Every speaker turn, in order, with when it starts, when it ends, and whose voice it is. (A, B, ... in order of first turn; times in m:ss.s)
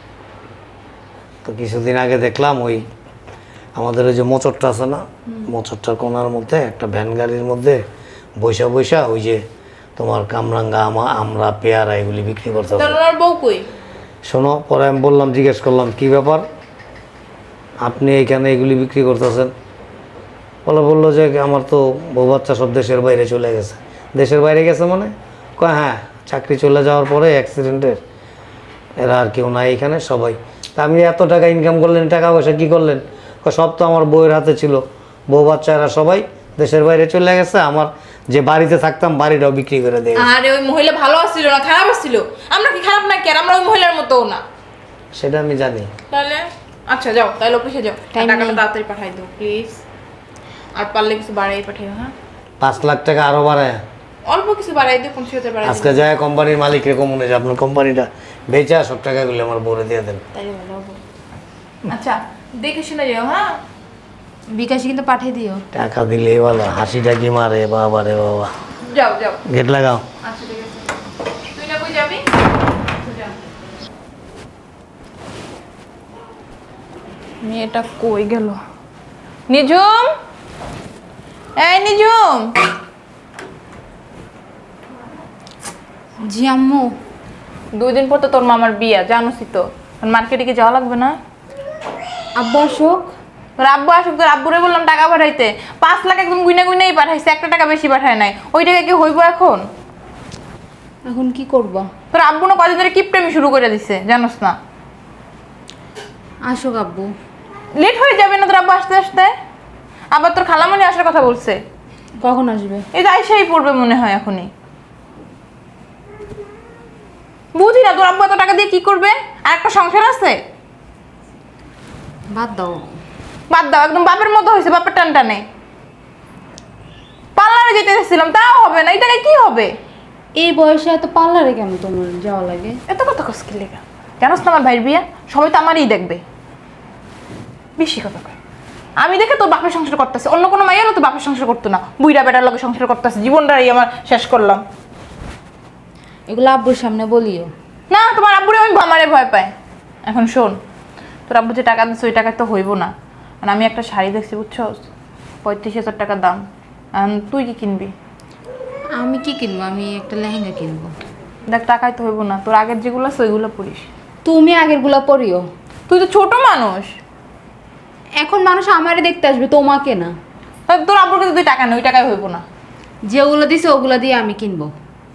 0:01.4-0:02.8 A
0:03.8-0:07.8 A
0:08.4-0:09.4 A
0:10.0-0:13.0 A
0:12.8-0:13.7 B
0:14.2-0:16.4 A
0:17.8-0:19.5 A
0:20.6-0:28.0 A
0:29.0-0:40.3 A
0:40.2-0:44.4 B
0:45.1-0:45.9 A
0:46.1-0:49.8 B
0:48.1-0:48.6 C
0:50.8-0:52.1 B
0:52.6-0:53.8 A
0:54.3-0:56.0 B
0:55.6-1:00.2 A
1:00.4-1:01.0 B
1:01.9-1:03.6 B
1:04.5-1:05.6 C
1:05.7-1:08.5 A
1:08.8-1:09.4 B
1:09.4-1:10.0 A
1:10.3-1:10.8 C
1:11.5-1:12.2 B
1:17.4-1:18.6 B
1:19.5-1:20.1 B
1:21.6-1:22.5 B
1:26.3-1:26.9 C
1:27.8-1:31.1 B
1:32.4-1:33.1 C
1:33.6-1:39.6 B
1:41.0-1:41.9 C
1:42.1-1:44.6 B
1:46.4-1:47.1 C
1:47.8-1:49.3 B
1:50.1-1:51.6 B
1:52.2-1:52.8 C
1:52.9-1:54.5 B
1:57.5-2:00.4 B
2:02.3-2:02.8 C
2:03.5-2:05.4 B
2:07.4-2:09.7 B
2:10.4-2:12.7 C
2:12.9-2:16.2 B
2:17.8-2:18.3 B
2:19.0-2:24.6 B
2:26.3-2:27.5 C
2:27.9-2:29.5 B
2:30.0-2:30.6 B
2:31.3-2:34.9 B
2:35.4-2:36.4 B
2:36.9-2:37.9 B
2:39.0-2:40.9 C
2:41.5-2:43.9 B
2:44.2-2:45.4 C
2:45.9-2:46.9 B
2:48.2-2:50.1 C
2:50.7-2:52.4 B
2:53.0-2:54.7 C